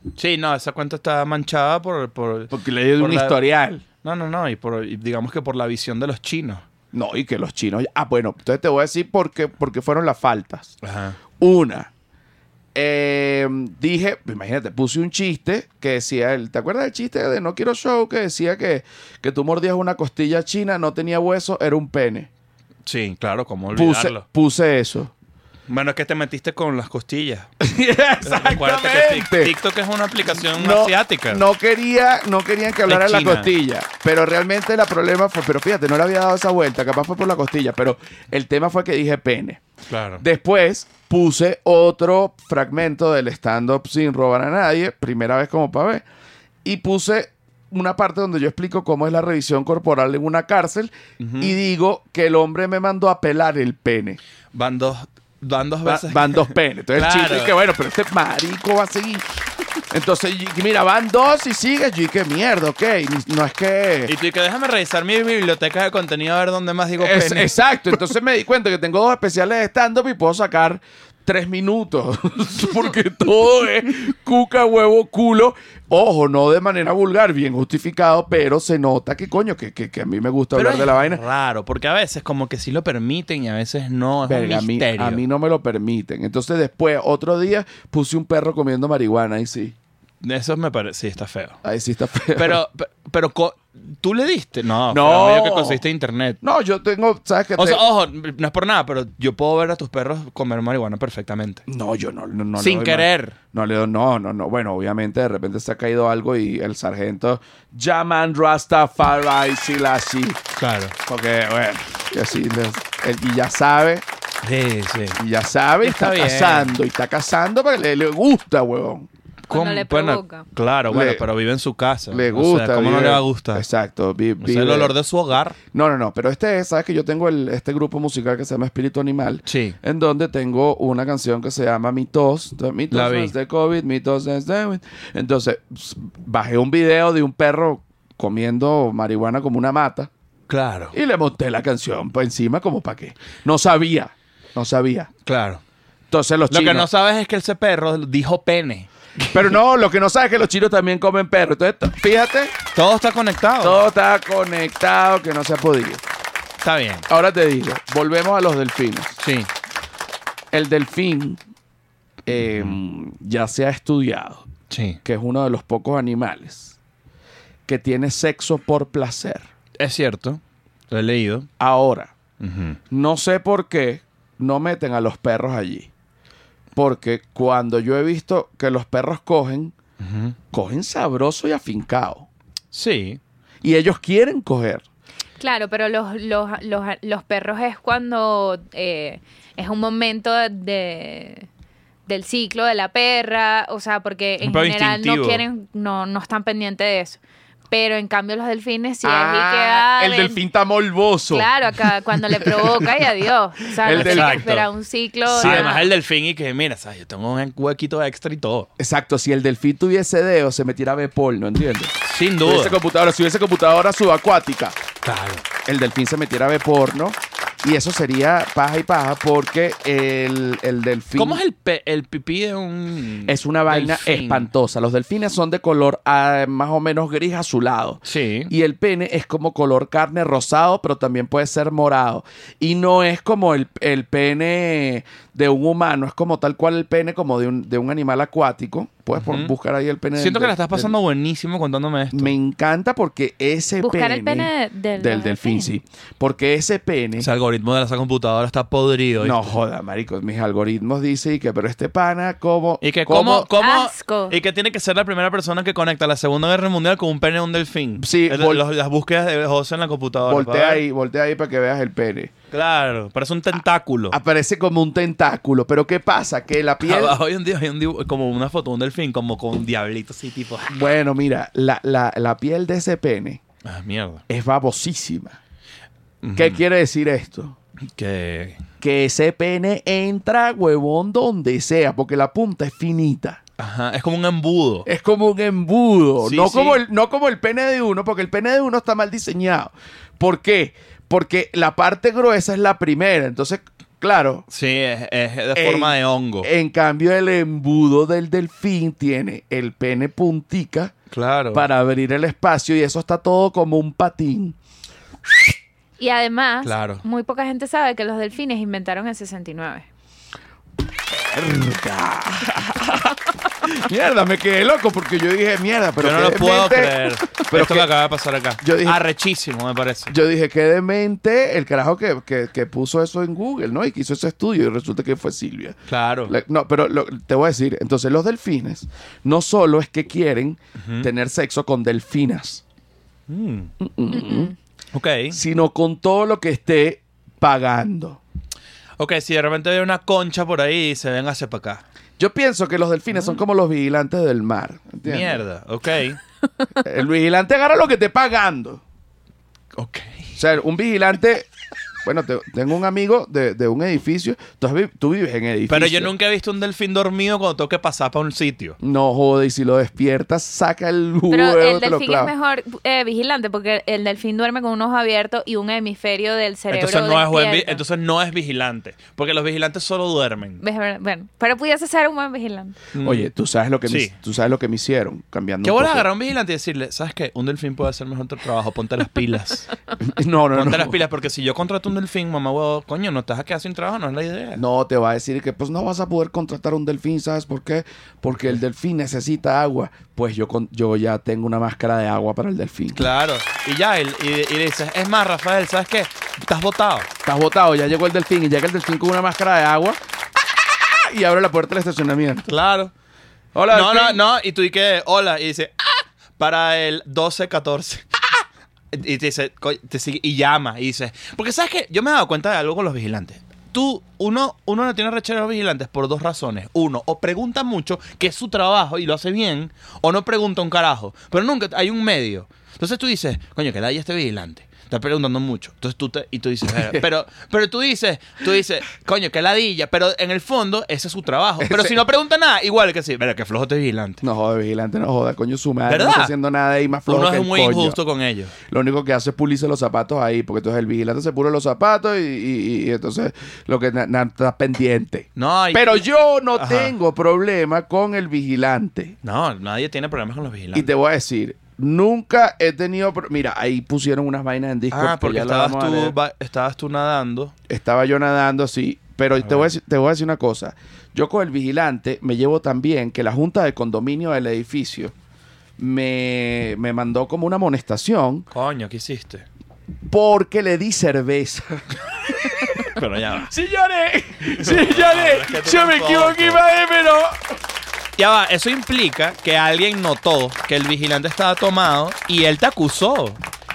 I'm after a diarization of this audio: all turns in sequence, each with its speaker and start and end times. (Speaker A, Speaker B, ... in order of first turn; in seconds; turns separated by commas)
Speaker A: 0.1-3.4, Speaker B: 2.5-3.8, Speaker A: 4.0-6.6, Speaker B: 6.9-10.8, Speaker A: 10.8-11.2, Speaker B: 11.4-11.9, Speaker B: 12.8-22.3, Speaker A: 22.9-24.2, Speaker B: 23.7-25.1, Speaker A: 25.7-27.5, Speaker B: 27.6-29.5, Speaker A: 28.2-31.4, Speaker B: 30.3-39.6, Speaker A: 32.9-33.5, Speaker A: 39.9-40.2, Speaker B: 40.2-46.0, Speaker B: 46.6-54.2, Speaker A: 51.2-51.6, Speaker A: 54.5-57.5, Speaker B: 55.9-59.2, Speaker B: 59.9-64.1, Speaker A: 64.1-67.6, Speaker B: 67.0-81.2, Speaker A: 80.5-85.2, Speaker B: 84.2-89.8, Speaker A: 90.2-91.6, Speaker B: 91.6-92.6, Speaker A: 92.3-96.4, Speaker B: 94.9-95.8, Speaker B: 96.4-97.8, Speaker A: 97.6-101.6, Speaker B: 101.7-110.4, Speaker A: 102.5-103.4, Speaker A: 110.5-110.9, Speaker B: 111.0-114.0, Speaker A: 114.4-115.2, Speaker B: 115.2-119.1, Speaker A: 115.8-116.8, Speaker A: 119.5-123.6, Speaker C: 119.5-120.5, Speaker B: 120.9-121.2, Speaker B: 122.1-124.9, Speaker A: 124.4-125.6, Speaker B: 125.7-140.1, Speaker A: 129.4-129.8, Speaker A: 132.9-133.3, Speaker A: 140.5-140.9, Speaker B: 140.9-145.1, Speaker A: 145.2-145.6, Speaker B: 146.1-146.9, Speaker A: 146.5-149.4, Speaker B: 149.3-152.5, Speaker A: 152.7-153.8, Speaker B: 153.6-156.0, Speaker A: 156.6-157.1, Speaker B: 157.1-159.2, Speaker A: 159.2-159.5, Speaker B: 160.5-161.4, Speaker B: 162.2-164.5, Speaker A: 162.3-162.8, Speaker A: 164.7-165.0, Speaker B: 165.0-166.8, Speaker B: 167.7-169.5, Speaker A: 169.8-171.5, Speaker B: 171.6-172.1, Speaker A: 172.4-172.8, Speaker B: 172.9-175.9, Speaker B: 176.8-179.8, Speaker A: 180.0-180.4, Speaker B: 180.5-182.3, Speaker A: 182.7-183.2, Speaker B: 183.6-184.8, Speaker C: 185.4-191.5, Speaker C: 192.1-200.4, Speaker A: 194.4-195.4, Speaker B: 199.0-201.5, Speaker C: 201.3-205.9, Speaker B: 202.3-202.9, Speaker B: 203.8-204.5, Speaker A: 203.9-204.7, Speaker A: 205.3-208.7, Speaker B: 205.3-205.7, Speaker B: 208.8-214.8, Speaker A: 212.0-212.8, Speaker A: 215.0-215.4, Speaker B: 215.6-221.4, Speaker A: 221.2-224.5, Speaker B: 223.2-240.9, Speaker A: 228.0-228.5, Speaker A: 239.2-239.5, Speaker A: 240.1-242.3, Speaker B: 242.1-247.3, Speaker C: 243.8-245.7, Speaker A: 247.2-249.5, Speaker B: 249.2-253.5, Speaker A: 252.8-260.8, Speaker C: 253.6-254.3, Speaker B: 258.0-258.6, Speaker B: 260.2-262.3, Speaker A: 262.5-264.2, Speaker B: 264.1-267.2, Speaker A: 266.8-270.7, Speaker B: 270.7-273.4, Speaker A: 273.6-274.2, Speaker B: 274.3-275.4, Speaker A: 276.2-276.6, Speaker B: 276.4-277.6, Speaker A: 277.9-278.6, Speaker B: 278.8-283.4, Speaker A: 283.6-284.9, Speaker B: 284.9-294.5, Speaker A: 286.2-286.8, Speaker A: 294.5-296.5, Speaker B: 295.5-300.9, Speaker A: 301.1-301.6, Speaker B: 301.5-304.6, Speaker B: 305.2-305.5, Speaker C: 306.0-309.9, Speaker A: 306.6-307.0, Speaker B: 311.1-317.9, Speaker A: 316.0-320.1, Speaker B: 318.6-319.0, Speaker B: 320.1-332.6, Speaker A: 325.9-326.3, Speaker A: 330.8-331.1, Speaker A: 333.3-333.7, Speaker B: 333.8-334.5, Speaker A: 334.9-335.4, Speaker B: 335.3-338.2, Speaker A: 339.0-341.8, Speaker B: 342.2-345.4, Speaker A: 345.0-346.2, Speaker B: 346.8-348.8, Speaker A: 349.8-350.3, Speaker B: 350.4-351.5, Speaker B: 352.0-356.1, Speaker A: 355.7-358.8, Speaker B: 358.8-362.3, Speaker C: 361.3-367.8, Speaker A: 366.7-370.6, Speaker C: 370.6-372.8, Speaker A: 372.9-373.3, Speaker B: 373.0-376.1, Speaker A: 373.9-374.1, Speaker A: 375.6-379.7, Speaker B: 380.0-381.0, Speaker A: 380.5-384.6, Speaker B: 384.6-393.0, Speaker A: 393.0-397.1, Speaker B: 397.2-402.5, Speaker A: 402.5-402.9, Speaker B: 403.5-404.2, Speaker A: 403.7-408.1, Speaker A: 408.9-434.2, Speaker B: 426.7-427.0, Speaker B: 431.6-432.0, Speaker B: 434.2-438.0, Speaker A: 435.9-436.3, Speaker A: 437.1-438.5, Speaker B: 438.6-449.2, Speaker A: 445.4-446.0, Speaker A: 446.5-446.9, Speaker A: 449.2-450.9, Speaker B: 450.7-456.2, Speaker A: 454.9-457.5, Speaker B: 457.7-465.1, Speaker A: 459.4-459.7, Speaker B: 465.8-468.5, Speaker A: 468.5-469.4, Speaker B: 470.1-477.4, Speaker A: 472.8-473.5, Speaker A: 474.5-476.6, Speaker A: 478.2-483.4